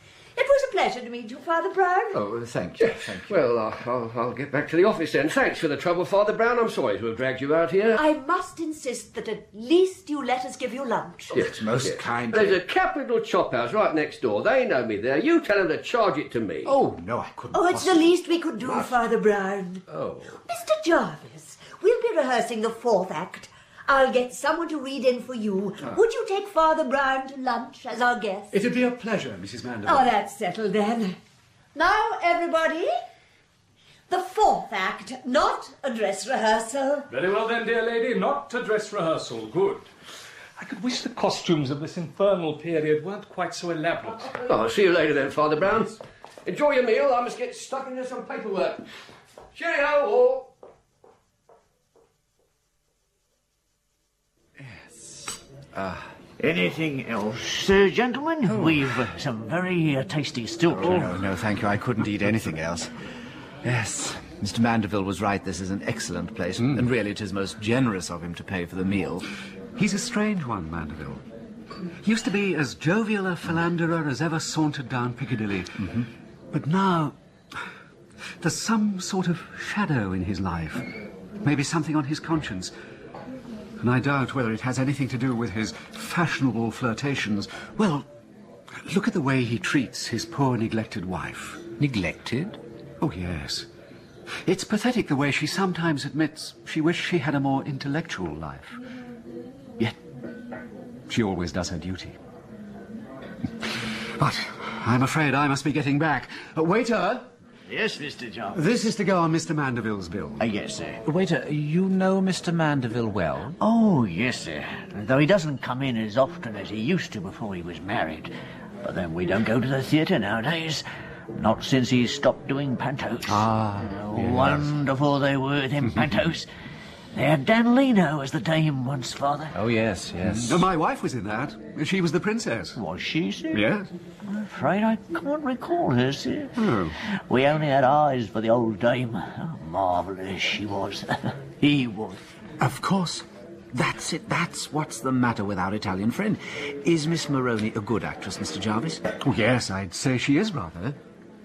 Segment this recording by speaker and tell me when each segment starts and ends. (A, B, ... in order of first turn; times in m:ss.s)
0:00.3-0:02.2 A
0:02.1-0:03.4 B
0:02.8-0:08.0 C
0:07.9-0:11.4 A
0:11.3-0:16.7 C
0:11.3-0:12.6 B
0:16.6-0:18.1 B
0:17.5-0:28.6 A
0:28.5-0:30.1 D
0:29.8-0:31.2 A
0:31.7-0:33.0 A
0:34.1-0:37.1 A
0:37.1-0:39.8 E
0:40.6-0:44.4 E
0:44.4-0:48.8 C
0:49.5-0:50.5 C
0:55.7-0:56.1 B
0:56.4-1:01.1 F
1:00.8-1:02.9 B
1:03.6-1:09.3 B
1:09.8-1:11.2 D
1:12.0-1:17.1 D
1:18.4-1:20.9 D
1:21.4-1:22.7 D
1:23.8-1:28.1 D
1:28.8-1:31.6 D
1:31.8-1:32.6 B
1:33.0-1:33.7 D
1:34.4-1:38.8 D
1:41.1-1:42.2 D
1:44.2-1:47.3 D
1:47.7-1:48.7 F
1:48.5-1:50.4 D
1:50.4-1:51.0 F
1:51.0-1:53.6 B
1:53.6-2:06.5 F
2:03.3-2:04.7 B
2:07.1-2:09.6 F
2:09.5-2:10.7 B
2:10.2-2:12.8 D
2:12.7-2:13.7 F
2:13.5-2:13.8 D
2:14.2-2:22.2 F
2:22.6-2:29.0 B
2:29.2-2:31.0 D